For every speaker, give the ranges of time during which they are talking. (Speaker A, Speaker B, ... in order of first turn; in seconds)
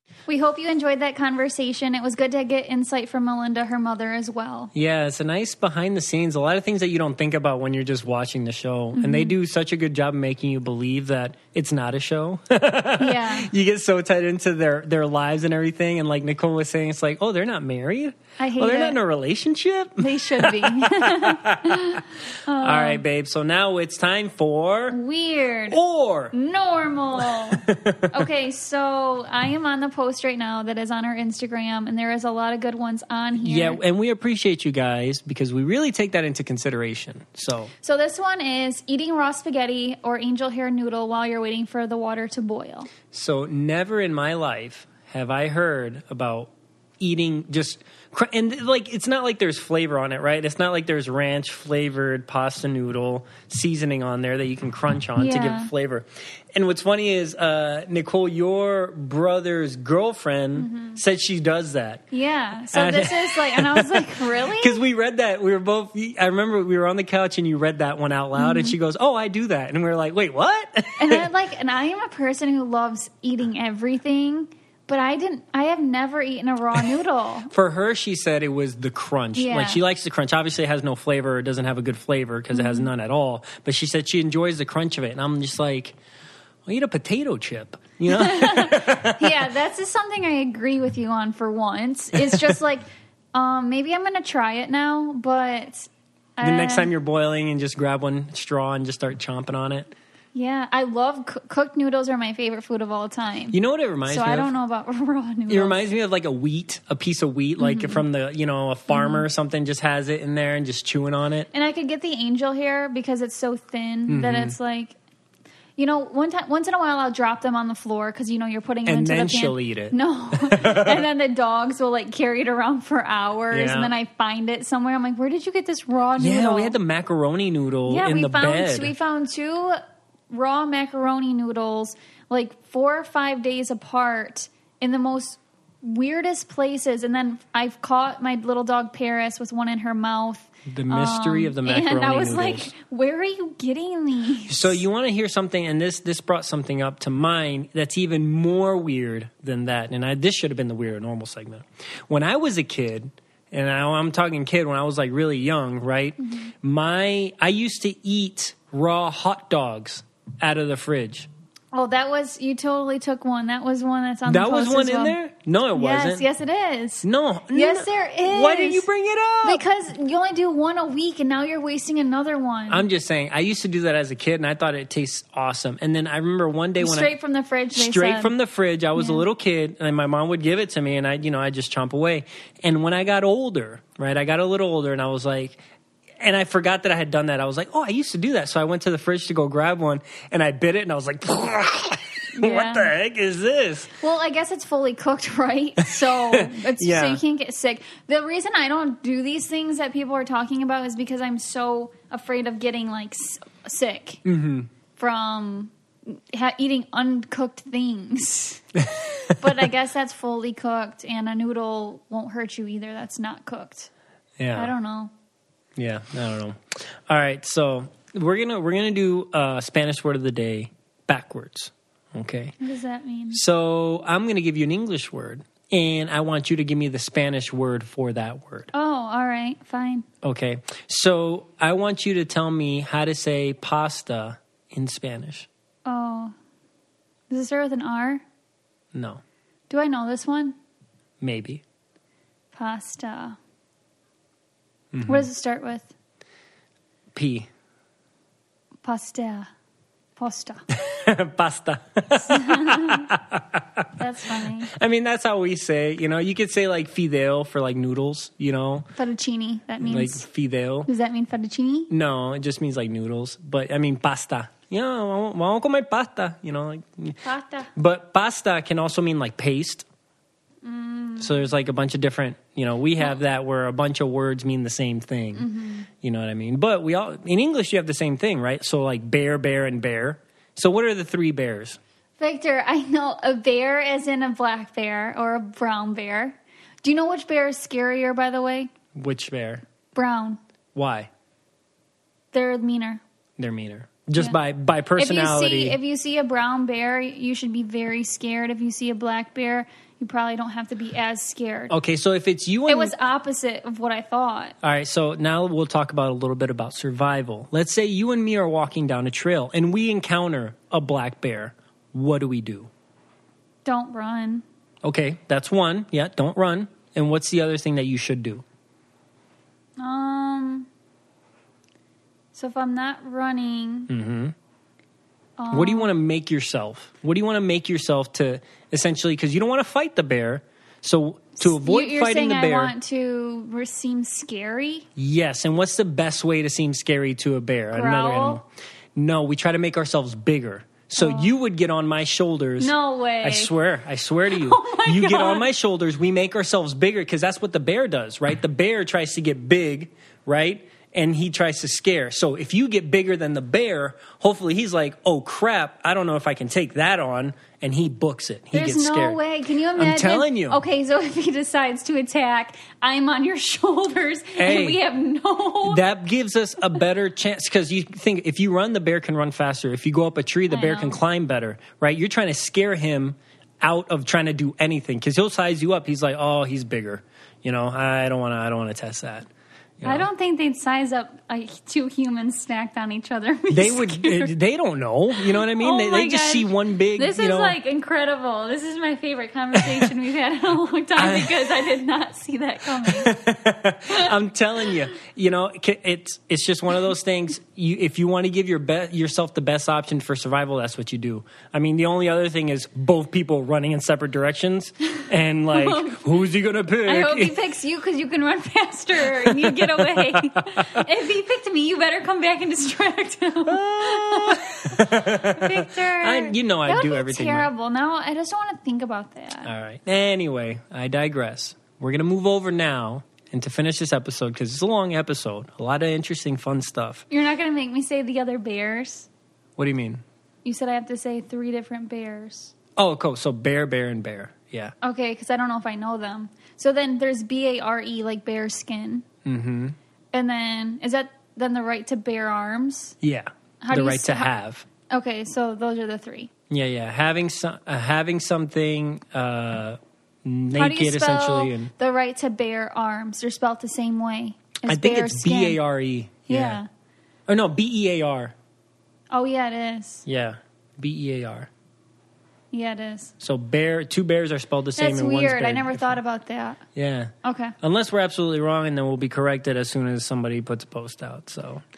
Speaker A: 0.3-4.7, 8.9-9.3, 13.0-13.5, 18.4-19.0, 20.0-23.0, 24.9-25.8, 26.3-33.8, 37.8-42.9, 55.2-55.7, 60.6-61.0, 62.1-64.8, 68.3-68.8, 71.0-77.5, 79.3-79.8, 82.5-82.9, 88.1-96.9, 100.3-105.8, 107.6-108.0, 108.9-109.2, 111.5-114.9, 115.8-126.8, 127.9-144.8, 156.2-156.5, 161.7-165.1, 165.7-168.8, 169.4-172.8, 176.8-178.3, 178.9-179.2, 192.3-192.9, 194.0-204.2, 205.0-208.7, 209.4-213.9, 214.5-215.1, 222.6-223.4, 228.7-230.1, 235.8-236.3, 237.3-238.2, 239.7-240.6, 242.5-243.4, 245.1-245.9, 248.8-249.5, 250.2-250.7, 252.3-253.1, 254.0-254.7, 258.9-260.2, 260.9-261.9, 267.2-267.7, 270.6-271.5, 275.3-275.9, 282.2-288.7, 289.9-290.4, 292.3-293.0, 295.0-301.7, 302.7-304.5, 313.6-314.4, 319.8-320.7, 322.3-323.9, 325.4-325.9, 331.4-334.9, 337.7-338.4, 341.0-341.3, 342.6-343.5, 344.3-345.4, 358.5-365.8, 370.5-371.0, 379.8-384.3, 385.1-393.1, 405.5-406.0, 406.9-419.5, 427.1-429.1, 430.4-432.5, 434.8-439.0, 440.1-442.9, 443.6-444.3, 444.9-446.3, 450.5-455.6, 456.3-456.7, 459.1-460.0, 462.5-463.1, 464.8-466.6, 467.2-467.5
Speaker B: 4.7-25.0, 25.7-26.3, 27.2-28.2, 33.4-37.7, 43.1-62.0, 62.7-71.3, 77.5-86.0, 86.7-89.3, 96.4-99.9, 103.5-104.5, 105.5-111.5, 114.1-114.5, 118.8-121.0, 123.5-123.9, 126.2-128.9, 140.7-142.7, 144.5-161.3, 164.3-166.2, 167.0-169.6, 172.7-177.1, 177.7-185.6, 186.2-193.9, 196.3-197.2, 204.2-204.7, 214.4-214.7, 215.8-222.5, 223.3-228.7, 230.2-235.5, 238.9-239.2, 241.2-241.6, 244.9-245.3, 247.1-247.5, 250.8-253.8, 254.7-258.9, 259.8-260.9, 261.9-267.2, 267.8-269.9, 271.2-275.5, 276.0-281.8, 288.9-289.6, 290.7-291.1, 293.4-295.8, 301.7-302.9, 304.6-312.7, 314.8-318.4, 323.9-324.3, 325.5-332.7, 335.0-359.2, 359.8-360.6, 364.4-364.8, 365.6-379.3, 379.8-380.1, 383.5-387.6, 389.5-389.9, 391.0-391.7, 392.8-407.3, 409.0-410.7, 413.4-417.5, 419.4-427.0, 429.6-430.0, 432.8-434.7, 439.2-439.8, 443.0-444.6, 446.5-451.7, 454.7-456.6, 457.3-458.3, 460.1-461.5, 463.2-466.0, 466.8-471.6